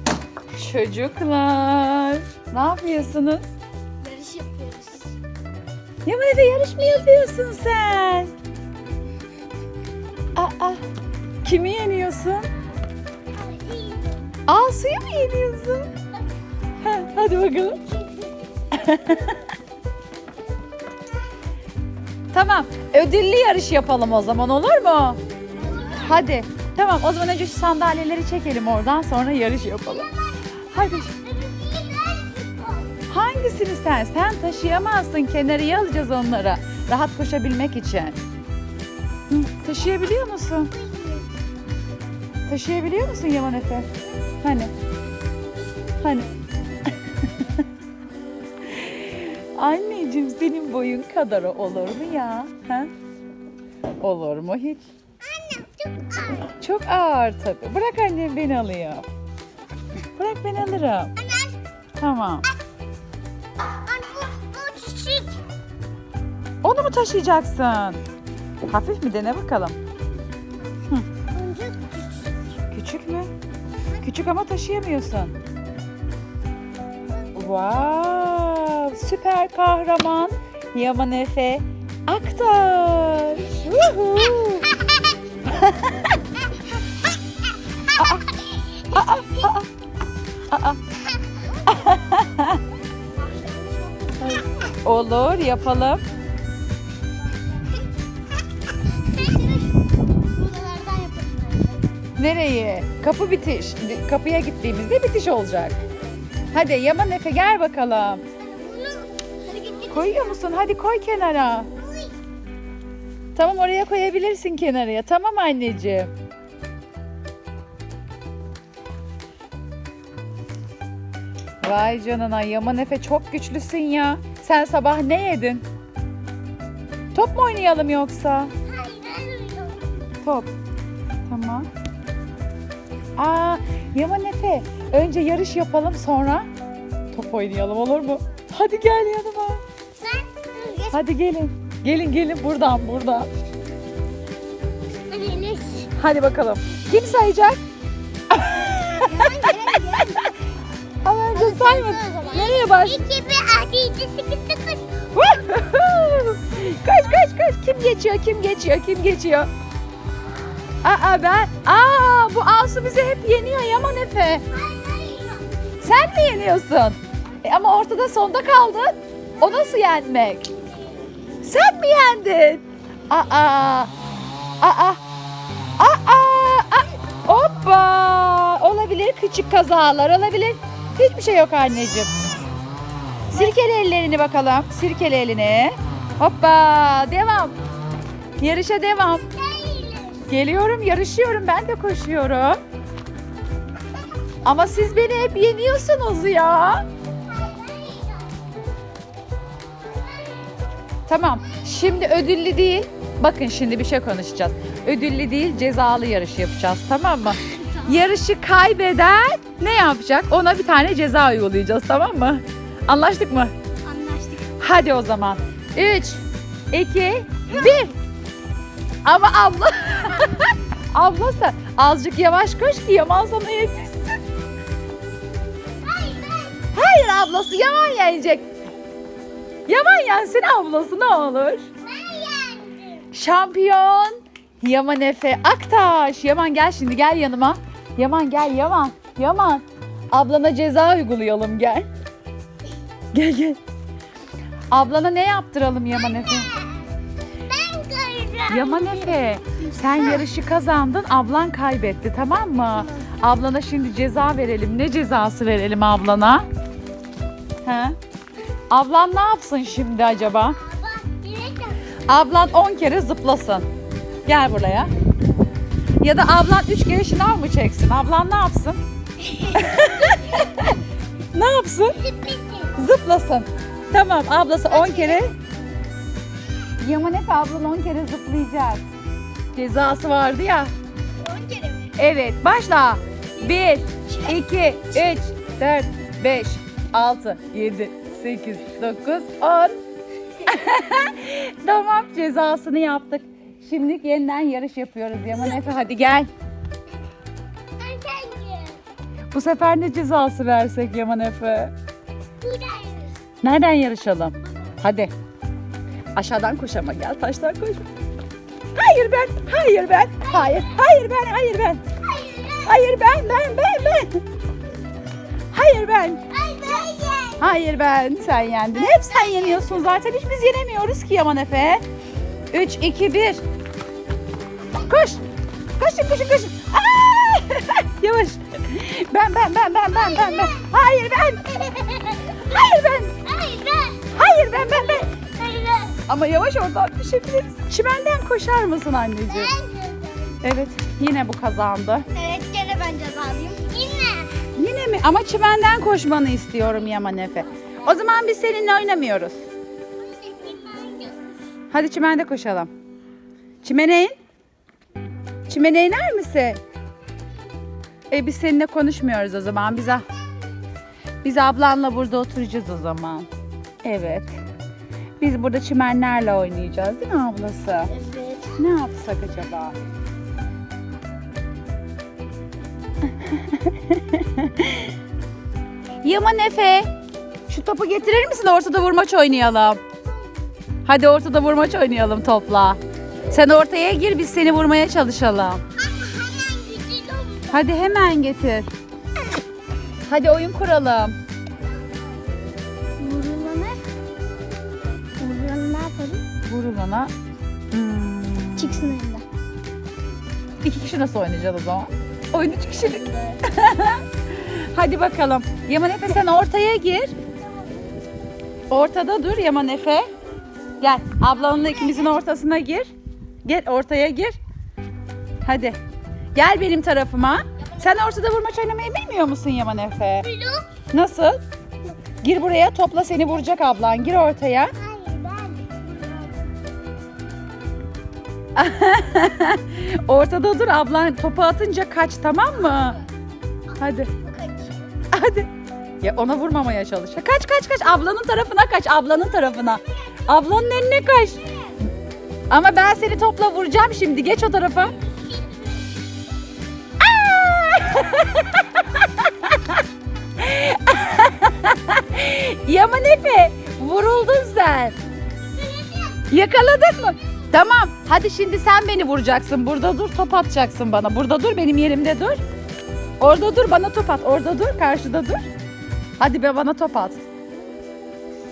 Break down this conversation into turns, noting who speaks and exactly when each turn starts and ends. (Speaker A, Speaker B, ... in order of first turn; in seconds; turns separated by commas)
Speaker A: 0.5-3.5, Speaker B: 4.0-5.1, Speaker A: 6.0-8.3, Speaker A: 10.3-10.8, Speaker A: 11.4-12.5, Speaker B: 13.3-14.3, Speaker A: 14.5-15.9, Speaker A: 16.8-17.8, Speaker A: 18.7-19.4, Speaker A: 22.3-25.2, Speaker B: 25.6-26.2, Speaker A: 25.9-30.1, Speaker B: 29.7-32.9, Speaker A: 30.7-31.1, Speaker A: 33.1-38.2, Speaker A: 39.3-40.7, Speaker B: 40.7-41.3, Speaker A: 42.5-43.9, Speaker A: 44.4-44.7, Speaker A: 46.0-46.3, Speaker A: 48.7-52.9, Speaker A: 54.0-54.8, Speaker B: 55.2-56.5, Speaker A: 56.5-59.0, Speaker A: 60.2-61.1, Speaker B: 61.2-61.5, Speaker A: 62.0-62.5, Speaker B: 63.7-65.4, Speaker A: 66.6-68.0, Speaker A: 68.7-69.8, Speaker B: 71.3-72.3, Speaker A: 72.7-73.3, Speaker A: 74.0-75.3, Speaker A: 77.3-84.7, Speaker A: 85.5-86.1, Speaker A: 87.9-88.3, Speaker A: 88.9-89.7, Speaker B: 88.9-89.5, Speaker A: 90.5-90.8, Speaker A: 91.7-92.6, Speaker B: 93.1-94.7, Speaker A: 94.2-96.0, Speaker B: 99.0-99.8, Speaker B: 100.3-101.8, Speaker A: 102.2-105.8, Speaker A: 106.5-108.2, Speaker B: 108.4-110.4, Speaker A: 109.9-111.7, Speaker B: 111.7-112.1, Speaker A: 113.3-116.1, Speaker A: 121.6-125.6, Speaker A: 127.1-128.5, Speaker B: 128.6-130.1, Speaker A: 130.2-130.5, Speaker A: 131.3-131.7, Speaker A: 133.2-136.5, Speaker A: 137.1-139.6, Speaker B: 140.0-141.0, Speaker A: 140.9-143.3, Speaker B: 145.1-145.9, Speaker A: 145.9-147.6, Speaker A: 148.3-149.1, Speaker B: 148.7-150.3, Speaker A: 151.0-153.0, Speaker B: 151.3-154.9, Speaker A: 155.1-159.5, Speaker A: 160.8-164.4, Speaker B: 164.5-165.4, Speaker A: 165.8-170.5, Speaker A: 171.4-173.9, Speaker A: 174.6-175.0, Speaker A: 175.8-182.1, Speaker A: 183.3-187.6, Speaker A: 188.4-189.3, Speaker B: 189.3-190.3, Speaker A: 190.3-192.6, Speaker A: 194.4-196.8, Speaker B: 197.3-198.2, Speaker A: 201.1-213.5, Speaker B: 207.6-207.9, Speaker B: 213.8-214.5, Speaker A: 214.6-217.9, Speaker A: 219.0-224.2, Speaker B: 225.8-226.6, Speaker A: 226.7-228.4, Speaker A: 229.7-231.7, Speaker B: 231.8-233.0, Speaker A: 233.1-241.9, Speaker A: 243.1-243.6, Speaker A: 244.7-246.5, Speaker B: 246.2-246.9, Speaker B: 247.4-249.2, Speaker A: 248.5-256.4, Speaker A: 257.6-258.0, Speaker A: 258.7-260.6, Speaker B: 260.6-261.8, Speaker A: 262.1-263.6, Speaker A: 264.2-264.9, Speaker A: 266.0-268.8, Speaker A: 269.4-270.8, Speaker A: 271.3-272.0, Speaker B: 272.0-272.7, Speaker A: 272.8-275.3, Speaker B: 274.7-275.2, Speaker A: 276.8-278.8, Speaker A: 279.5-280.7, Speaker B: 281.2-281.9, Speaker A: 282.0-289.8, Speaker B: 284.1-284.4, Speaker A: 290.4-296.3, Speaker B: 297.8-298.8, Speaker A: 299.3-301.7, Speaker B: 302.4-303.1, Speaker A: 303.4-305.1, Speaker A: 306.1-307.9, Speaker A: 308.7-311.8, Speaker B: 310.3-310.7, Speaker B: 312.0-312.8, Speaker A: 312.6-314.2, Speaker A: 315.5-316.2, Speaker B: 316.3-317.4, Speaker A: 317.4-321.8, Speaker B: 318.9-319.7, Speaker A: 322.5-323.4, Speaker A: 324.8-325.2, Speaker A: 325.8-333.1, Speaker B: 330.0-330.6, Speaker B: 333.2-334.1, Speaker A: 334.1-335.1, Speaker B: 334.8-336.0, Speaker A: 336.1-339.5, Speaker B: 339.3-340.4, Speaker A: 340.4-342.0, Speaker B: 342.1-344.4, Speaker A: 344.6-349.4, Speaker B: 350.0-351.3, Speaker A: 351.7-352.7, Speaker A: 353.6-354.1, Speaker A: 355.5-356.6, Speaker A: 358.1-360.0, Speaker A: 361.2-363.3, Speaker A: 363.8-364.3, Speaker A: 365.2-367.9, Speaker B: 367.9-368.6, Speaker A: 368.6-369.8, Speaker A: 373.2-374.9, Speaker A: 376.0-376.9, Speaker A: 377.5-379.8, Speaker A: 380.9-385.6, Speaker B: 385.8-387.7, Speaker A: 387.5-388.7, Speaker A: 390.1-391.2, Speaker B: 393.0-393.8, Speaker B: 395.2-396.2, Speaker A: 396.4-397.1, Speaker A: 397.7-398.9, Speaker B: 398.6-399.2, Speaker A: 400.6-407.1, Speaker B: 402.8-403.4, Speaker A: 408.7-410.1, Speaker A: 410.8-412.9, Speaker B: 411.6-412.0, Speaker A: 413.4-414.4, Speaker A: 415.4-415.8, Speaker A: 416.3-420.3, Speaker B: 420.2-420.7, Speaker A: 420.9-421.4, Speaker A: 422.2-424.7, Speaker B: 424.8-426.5, Speaker A: 428.6-433.0, Speaker B: 433.7-434.9, Speaker A: 433.8-434.1, Speaker A: 435.1-435.5, Speaker A: 436.0-441.4, Speaker A: 442.5-445.0, Speaker A: 447.0-449.8, Speaker A: 450.4-454.9, Speaker B: 455.5-456.2, Speaker A: 456.3-462.4, Speaker A: 463.2-465.5, Speaker A: 466.2-467.2